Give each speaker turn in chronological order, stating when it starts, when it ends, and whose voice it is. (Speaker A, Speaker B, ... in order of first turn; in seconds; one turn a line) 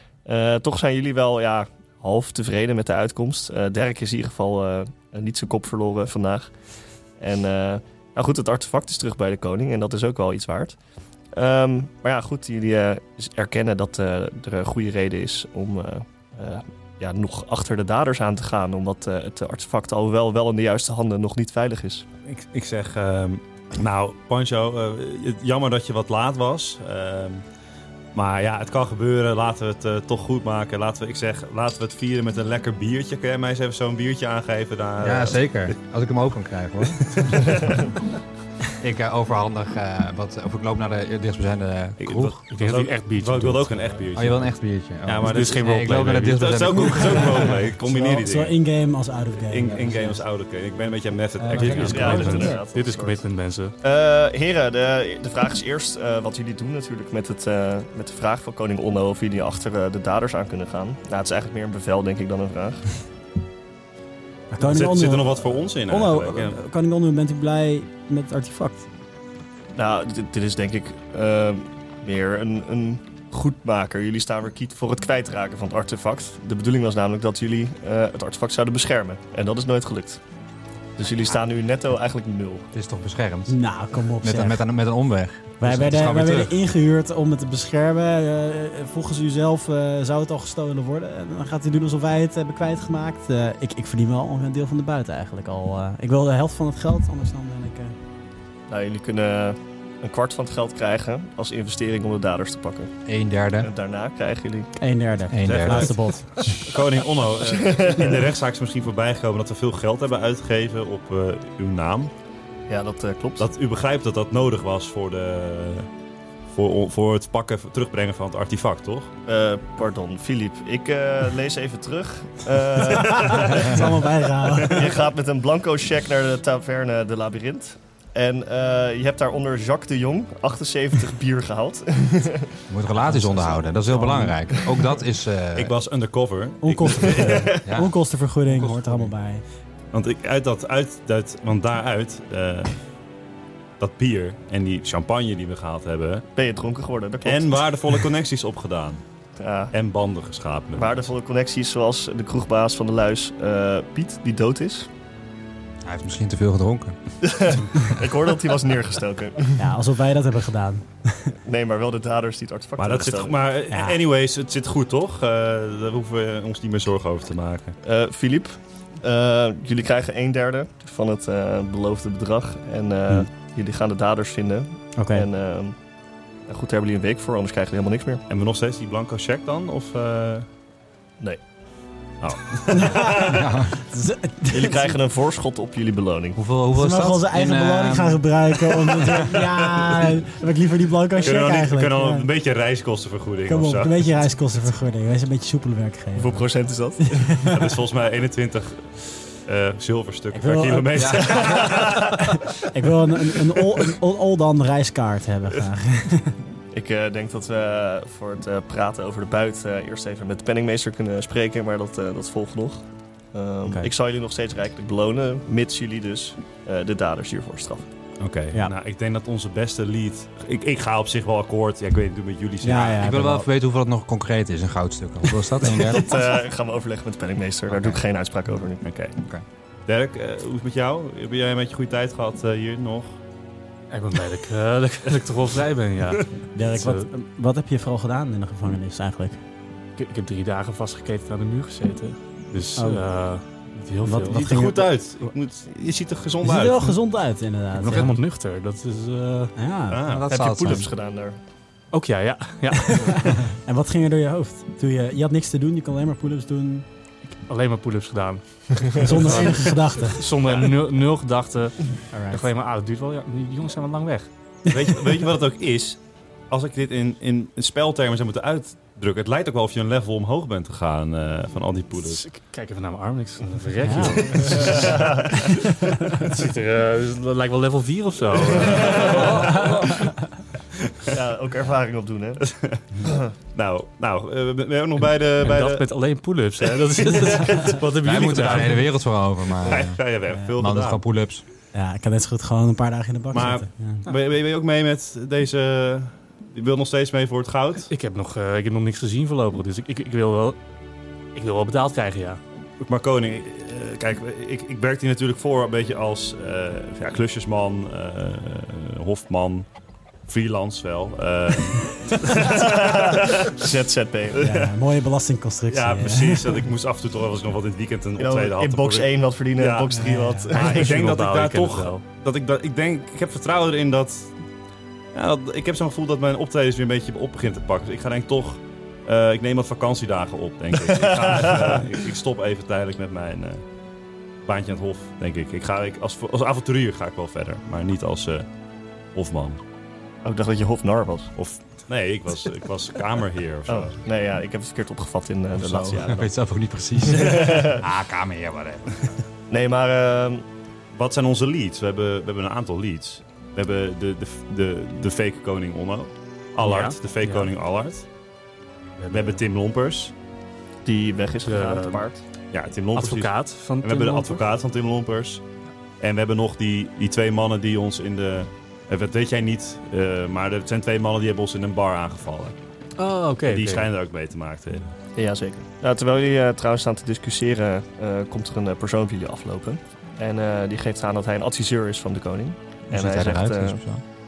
Speaker A: 0.2-6.5
Speaker A: 7.2-10.8
Speaker A: 11.3-22.0
Speaker B: 22.3-27.4
Speaker B: 28.1-35.8
Speaker C: 35.0-37.6
Speaker B: 37.0-37.8
Speaker C: 38.8-42.3
Speaker B: 42.0-44.5
Speaker D: 42.5-44.0
Speaker C: 44.1-47.5
Speaker B: 45.0-48.6
Speaker D: 45.2-46.5
Speaker E: 47.6-50.2
Speaker B: 49.5-52.6
Speaker C: 51.5-52.2
Speaker D: 51.5-53.7
Speaker A: 51.6-53.2
Speaker E: 51.7-52.6
Speaker A: 53.8-62.9
Speaker E: 64.5-68.8
Speaker B: 64.6-66.6
Speaker A: 69.7-80.2
Speaker A: 81.0-82.7
Speaker C: 82.7-83.5
Speaker E: 83.5-84.6
Speaker C: 84.2-86.6
Speaker E: 85.6-97.9
Speaker A: 98.7-102.9
Speaker C: 103.0-103.7
Speaker A: 103.6-104.7
Speaker E: 104.8-106.5
Speaker C: 105.3-106.0
Speaker B: 105.4-112.1
Speaker A: 107.4-108.3
Speaker A: 112.7-113.5
Speaker B: 113.4-115.9
Speaker B: 116.5-119.1
Speaker A: 119.2-124.0
Speaker E: 123.1-125.0
Speaker A: 124.6-132.6
Speaker C: 132.7-135.8
Speaker A: 133.9-134.9
Speaker B: 135.5-137.6
Speaker E: 136.6-139.4
Speaker C: 137.6-137.9
Speaker B: 139.9-142.8
Speaker B: 143.8-146.2
Speaker A: 146.3-147.7
Speaker B: 147.2-149.0
Speaker A: 149.4-149.7
Speaker B: 149.7-151.1
Speaker A: 150.8-154.9
Speaker C: 155.8-156.9
Speaker A: 157.2-159.7
Speaker E: 159.6-161.3
Speaker A: 161.4-163.3
Speaker B: 162.8-167.8
Speaker E: 163.7-164.0
Speaker A: 167.8-175.8
Speaker E: 174.9-175.3
Speaker A: 176.5-178.2
Speaker B: 178.3-180.4
Speaker B: 182.2-183.5
Speaker E: 182.7-184.9
Speaker C: 183.3-183.7
Speaker A: 184.5-186.4
Speaker C: 186.3-188.3
Speaker E: 186.7-192.2
Speaker B: 191.2-194.0
Speaker E: 193.5-196.4
Speaker A: 196.1-197.4
Speaker E: 197.1-197.6
Speaker B: 197.5-202.4
Speaker E: 200.3-201.6
Speaker C: 200.9-201.5
Speaker A: 201.1-202.2
Speaker E: 202.2-206.4
Speaker A: 206.7-217.9
Speaker B: 218.2-223.0
Speaker E: 222.6-223.5
Speaker C: 223.0-226.1
Speaker A: 225.7-228.8
Speaker B: 228.8-229.2
Speaker B: 229.8-233.2
Speaker D: 233.9-237.0
Speaker E: 236.5-239.4
Speaker D: 240.0-244.5
Speaker E: 242.7-243.0
Speaker E: 244.0-244.9
Speaker B: 244.3-247.0
Speaker E: 246.4-248.1
Speaker D: 247.8-249.5
Speaker E: 249.6-250.0
Speaker B: 249.9-250.2
Speaker C: 250.1-250.9
Speaker A: 250.3-251.4
Speaker D: 251.9-253.4
Speaker E: 252.7-256.9
Speaker D: 257.4-264.3
Speaker E: 259.0-260.2
Speaker E: 262.1-262.4
Speaker B: 264.7-272.2
Speaker D: 272.0-280.1
Speaker E: 273.8-274.7
Speaker B: 274.2-274.8
Speaker A: 274.6-275.4
Speaker E: 275.3-276.3
Speaker A: 278.6-279.6
Speaker B: 278.7-279.7
Speaker B: 280.9-281.2
Speaker A: 281.1-282.4
Speaker B: 282.4-282.8
Speaker B: 283.5-285.9
Speaker D: 285.4-288.8
Speaker B: 286.7-288.8
Speaker C: 288.0-290.0
Speaker B: 289.6-291.0
Speaker C: 290.6-291.4
Speaker E: 291.7-294.1
Speaker B: 293.3-297.9
Speaker D: 297.9-300.6
Speaker D: 301.3-302.4
Speaker B: 302.8-309.7
Speaker B: 310.2-313.6
Speaker A: 312.2-314.4
Speaker E: 314.3-316.6
Speaker B: 314.3-314.7
Speaker B: 315.7-319.9
Speaker A: 318.2-321.0
Speaker E: 319.9-320.5
Speaker B: 320.5-324.3
Speaker D: 320.5-322.0
Speaker B: 325.1-333.6
Speaker A: 330.9-331.8
Speaker B: 334.4-338.5
Speaker B: 339.1-339.6
Speaker A: 340.2-341.3
Speaker B: 341.4-343.9
Speaker A: 343.7-346.4
Speaker C: 345.5-349.2
Speaker A: 347.1-347.8
Speaker A: 349.5-350.4
Speaker B: 350.9-358.0
Speaker D: 356.6-357.5
Speaker D: 359.0-359.4
Speaker B: 359.1-360.1
Speaker A: 360.8-362.2
Speaker D: 361.4-362.0
Speaker B: 362.5-365.4
Speaker D: 362.9-364.4
Speaker B: 366.0-372.5
Speaker D: 373.0-373.9
Speaker B: 373.5-374.9
Speaker A: 375.1-383.8
Speaker C: 382.9-384.0